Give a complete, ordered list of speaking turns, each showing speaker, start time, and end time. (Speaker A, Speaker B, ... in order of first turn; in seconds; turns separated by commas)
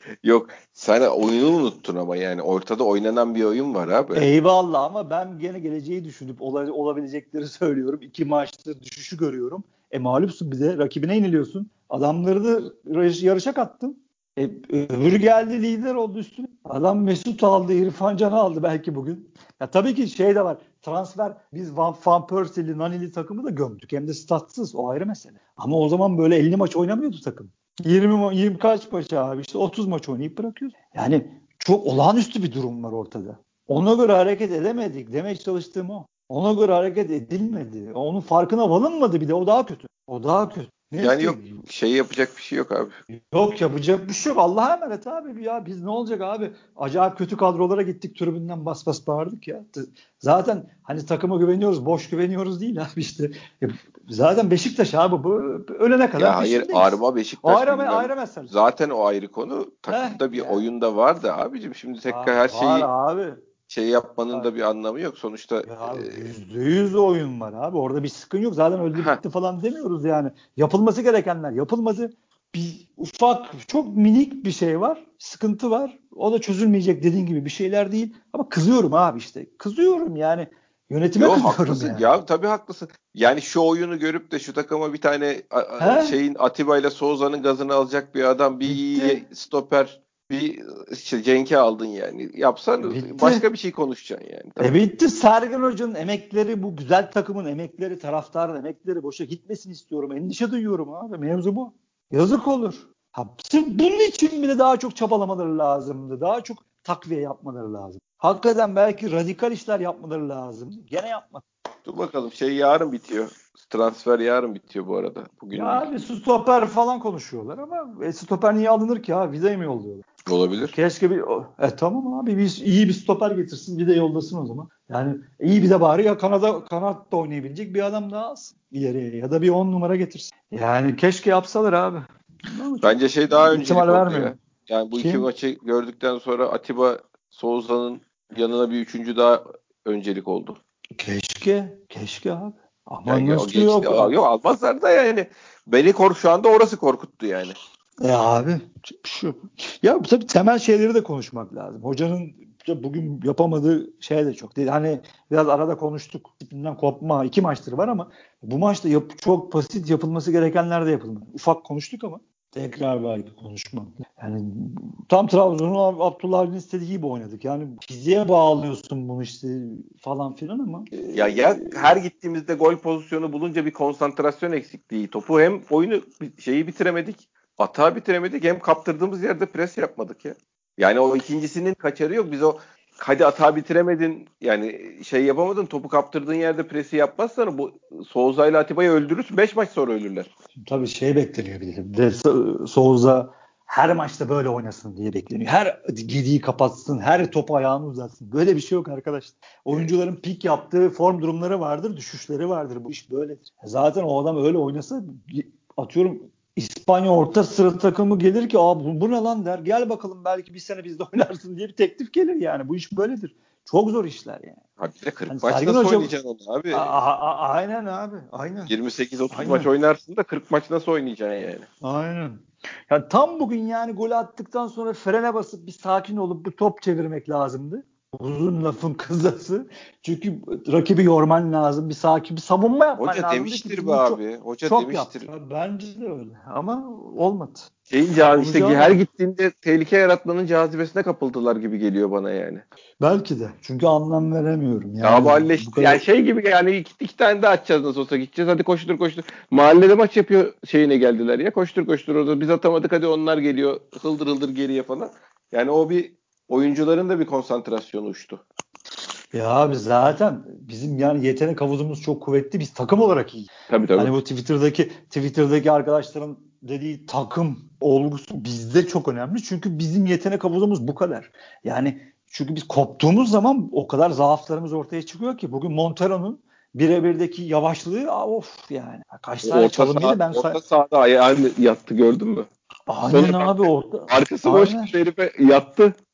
Speaker A: 0.2-4.3, Speaker B: 4.2-41.6, Speaker A: 41.0-43.0, Speaker B: 43.1-58.5, Speaker A: 56.2-62.9, Speaker B: 59.9-60.7, Speaker B: 62.1-63.4, Speaker A: 63.7-66.3, Speaker B: 65.7-82.0, Speaker A: 68.9-69.2, Speaker A: 81.2-94.8, Speaker B: 85.8-86.2, Speaker B: 88.7-89.2, Speaker B: 92.8-93.4, Speaker B: 94.6-111.5, Speaker A: 111.9-115.9, Speaker B: 115.5-120.1, Speaker A: 120.3-120.8, Speaker B: 120.7-134.3, Speaker A: 132.8-140.6, Speaker B: 134.9-135.3, Speaker B: 141.0-144.2, Speaker A: 143.1-147.6, Speaker B: 148.0-171.8, Speaker A: 171.1-190.3, Speaker B: 190.6-214.6, Speaker A: 199.7-199.9, Speaker A: 214.8-216.9, Speaker B: 215.3-216.1, Speaker B: 216.7-218.7, Speaker A: 218.7-221.7, Speaker B: 219.3-219.7, Speaker B: 221.8-237.7, Speaker A: 233.0-235.3, Speaker A: 237.9-242.7, Speaker B: 238.3-239.0, Speaker B: 243.0-246.0, Speaker A: 245.0-258.4, Speaker B: 259.3-280.6, Speaker A: 263.7-264.1, Speaker A: 279.4-282.5, Speaker B: 282.9-284.9, Speaker A: 283.1-285.9